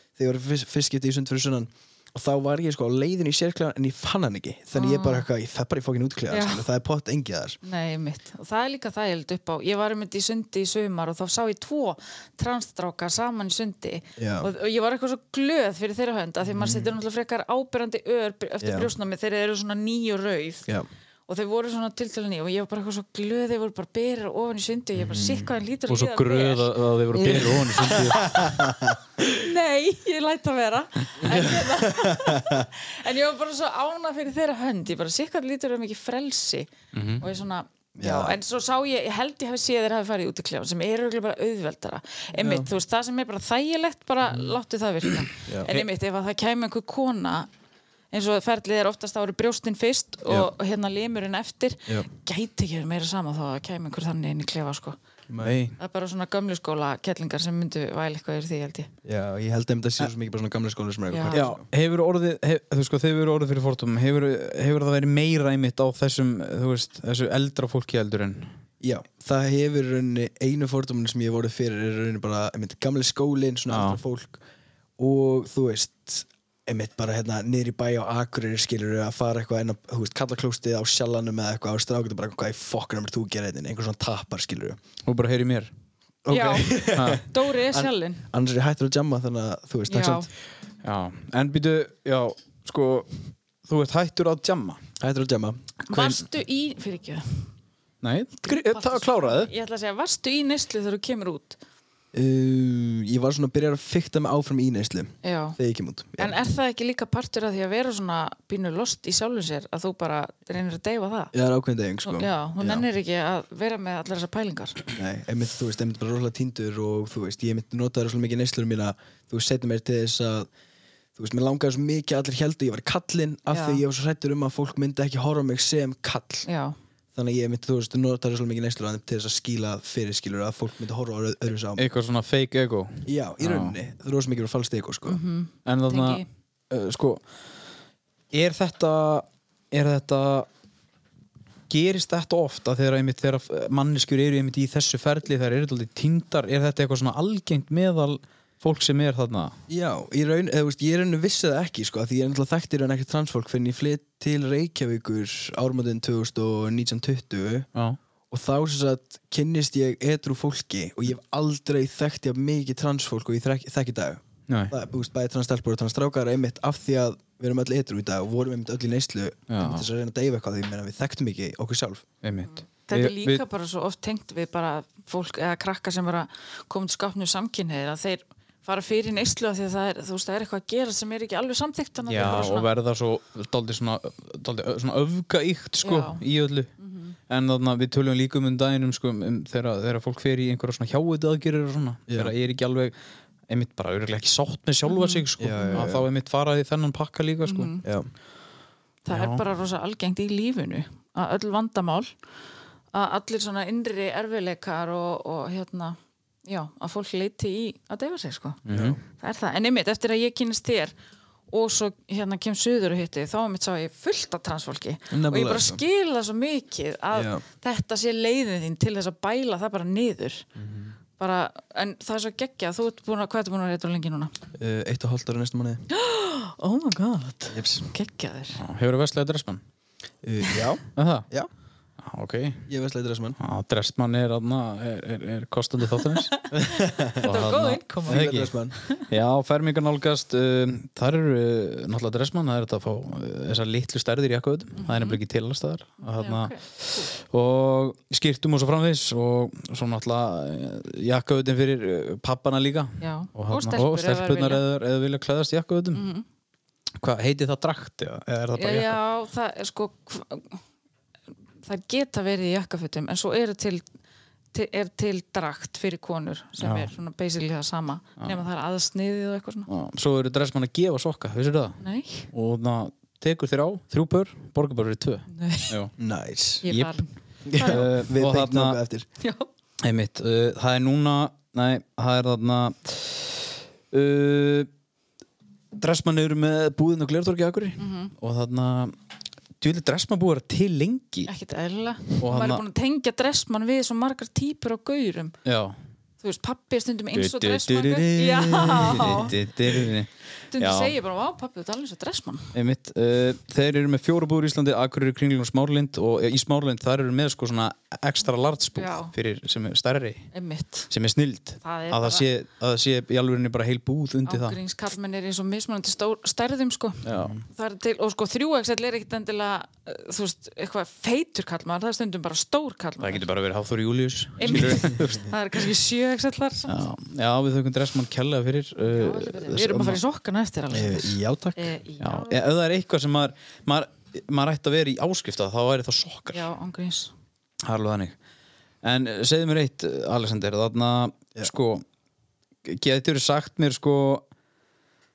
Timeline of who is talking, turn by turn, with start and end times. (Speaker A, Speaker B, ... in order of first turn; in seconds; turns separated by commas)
Speaker A: 0.1-7.6, Speaker B: 4.7-5.2, Speaker B: 6.3-6.6, Speaker B: 7.6-20.7, Speaker A: 14.2-14.5, Speaker A: 16.5-16.9, Speaker A: 18.6-18.9, Speaker B: 21.3-26.7, Speaker A: 24.9-25.5, Speaker C: 25.9-28.6, Speaker A: 27.2-29.3, Speaker B: 27.3-28.2, Speaker B: 29.3-47.5, Speaker A: 31.2-32.7, Speaker C: 36.9-37.2, Speaker A: 38.0-38.4, Speaker A: 42.4-42.7, Speaker B: 48.1-55.0, Speaker A: 55.3-55.6, Speaker C: 55.4-55.8, Speaker B: 55.8-58.9, Speaker A: 59.0-61.6, Speaker B: 61.1-61.4, Speaker C: 61.3-68.5, Speaker A: 68.8-74.4, Speaker C: 73.7-74.0, Speaker A: 75.0-84.8, Speaker C: 85.0-85.7, Speaker A: 86.2-90.3, Speaker B: 86.3-88.2, Speaker C: 86.9-87.2, Speaker B: 89.9-90.3, Speaker C: 90.8-94.8, Speaker A: 95.0-95.7, Speaker B: 95.9-97.5, Speaker C: 95.9-96.2, Speaker C: 98.0-99.5, Speaker B: 98.4-101.6, Speaker A: 102.1-106.3, Speaker B: 105.2-105.6, Speaker B: 106.2-111.3, Speaker A: 111.3-112.8, Speaker B: 112.0-114.8, Speaker A: 114.9-120.5, Speaker A: 121.2-126.5, Speaker B: 123.5-123.8, Speaker B: 126.5-126.7, Speaker A: 127.1-131.9, Speaker C: 131.8-133.8, Speaker A: 133.1-135.2, Speaker B: 135.1-136.2, Speaker C: 135.7-137.2, Speaker C: 138.3-140.5, Speaker C: 141.7-149.5, Speaker A: 149.7-157.7, Speaker A: 158.3-172.1, Speaker C: 164.5-164.7, Speaker C: 169.5-169.9, Speaker C: 172.2-173.4, Speaker B: 172.4-182.7, Speaker C: 182.1-186.7, Speaker B: 185.8-186.2, Speaker B: 186.8-187.2, Speaker C: 187.3-192.9, Speaker C: 193.5-197.7, Speaker B: 194.9-195.8, Speaker A: 195.4-196.1, Speaker B: 197.4-197.8, Speaker A: 197.8-198.1, Speaker B: 199.0-202.1, Speaker C: 199.1-199.4, Speaker B: 202.9-208.6, Speaker C: 208.7-209.0, Speaker A: 208.7-209.0, Speaker B: 209.2-210.9, Speaker B: 211.5-220.5, Speaker A: 215.1-215.8, Speaker A: 217.1-217.4, Speaker A: 220.6-220.9, Speaker B: 221.2-224.3, Speaker A: 224.6-225.8, Speaker B: 225.9-228.6, Speaker A: 227.5-227.9, Speaker C: 228.6-229.6, Speaker A: 230.2-231.5, Speaker C: 230.9-231.2, Speaker C: 232.0-232.7, Speaker A: 232.7-233.4, Speaker C: 233.4-236.4, Speaker B: 236.2-238.2, Speaker A: 236.5-237.4, Speaker C: 237.2-238.5, Speaker A: 238.1-238.8, Speaker C: 239.1-256.0, Speaker B: 244.8-245.2, Speaker B: 246.0-247.1, Speaker B: 253.0-254.6, Speaker B: 255.9-256.2, Speaker C: 257.0-259.0, Speaker B: 258.6-260.6, Speaker B: 261.6-263.8, Speaker B: 264.5-269.7, Speaker C: 266.6-266.9, Speaker C: 269.7-275.9, Speaker B: 271.8-272.3, Speaker B: 275.3-275.7, Speaker A: 276.0-276.6, Speaker B: 276.6-277.8, Speaker C: 276.7-277.0, Speaker A: 277.4-279.1, Speaker C: 277.6-278.8, Speaker B: 279.2-279.5, Speaker C: 279.8-284.7, Speaker C: 285.8-288.9, Speaker B: 287.8-288.1, Speaker C: 289.6-291.3, Speaker B: 291.2-295.4, Speaker C: 292.2-292.6, Speaker C: 295.4-295.8, Speaker B: 296.2-299.3, Speaker C: 297.1-300.9, Speaker B: 300.5-302.5, Speaker C: 302.5-310.3, Speaker B: 308.8-309.1, Speaker B: 310.3-310.9, Speaker C: 310.9-314.6, Speaker B: 311.6-312.3, Speaker B: 314.3-323.2, Speaker C: 317.0-317.4, Speaker C: 323.0-325.3, Speaker B: 324.4-326.8, Speaker A: 324.5-325.0, Speaker C: 326.7-330.0, Speaker B: 328.9-332.4, Speaker A: 330.7-331.7, Speaker C: 332.0-336.4, Speaker B: 336.3-337.1, Speaker C: 337.6-338.1, Speaker C: 338.8-341.8, Speaker C: 342.6-344.2